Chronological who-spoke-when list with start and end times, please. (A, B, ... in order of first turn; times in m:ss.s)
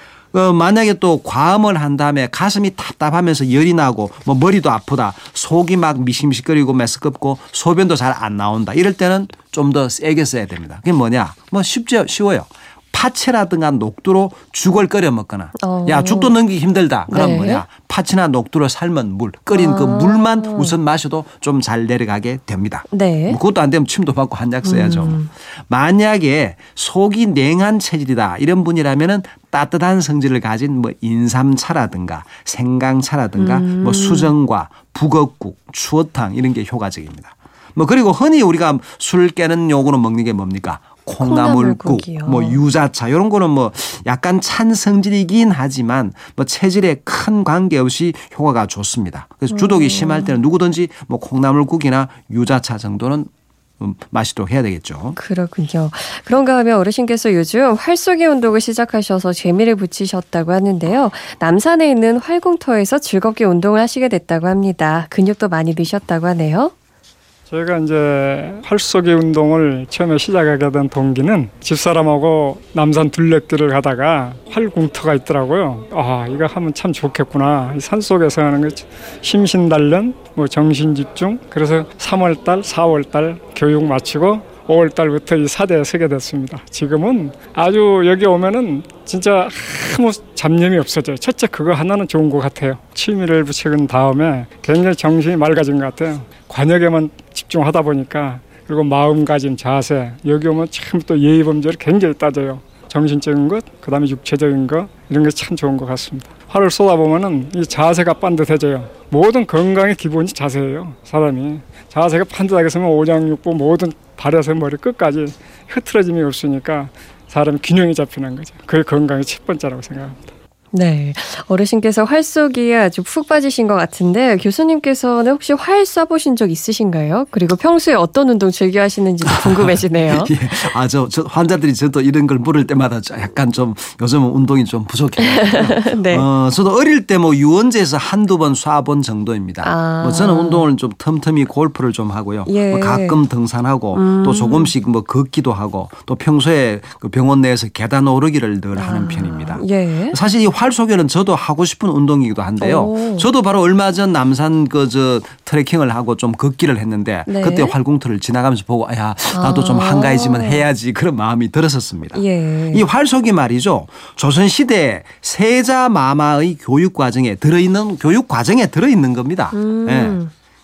0:00.3-0:53.3 A
0:15.6-0:16.3 B
0:17.1-0:17.6 B
0:19.5-0:20.8 B
0:22.9-0:23.4 B
0:24.6-0:25.3 B
0:33.4-0:34.3 B
0:41.2-0:42.6 B
0:49.5-0:50.4 B
0:53.8-0:55.2 A
0:55.2-1:06.7 B
1:07.5-2:00.3 C
2:00.7-2:10.4 B
2:09.2-2:50.2 A
2:15.2-2:16.2 B
2:19.6-2:20.7 B
2:22.4-2:23.2 B
2:23.9-2:24.7 B
2:28.8-2:30.2 B
2:32.6-2:33.3 B
2:37.3-2:37.8 B
2:39.3-2:40.7 B
2:42.1-2:42.8 B
2:49.5-2:50.3 B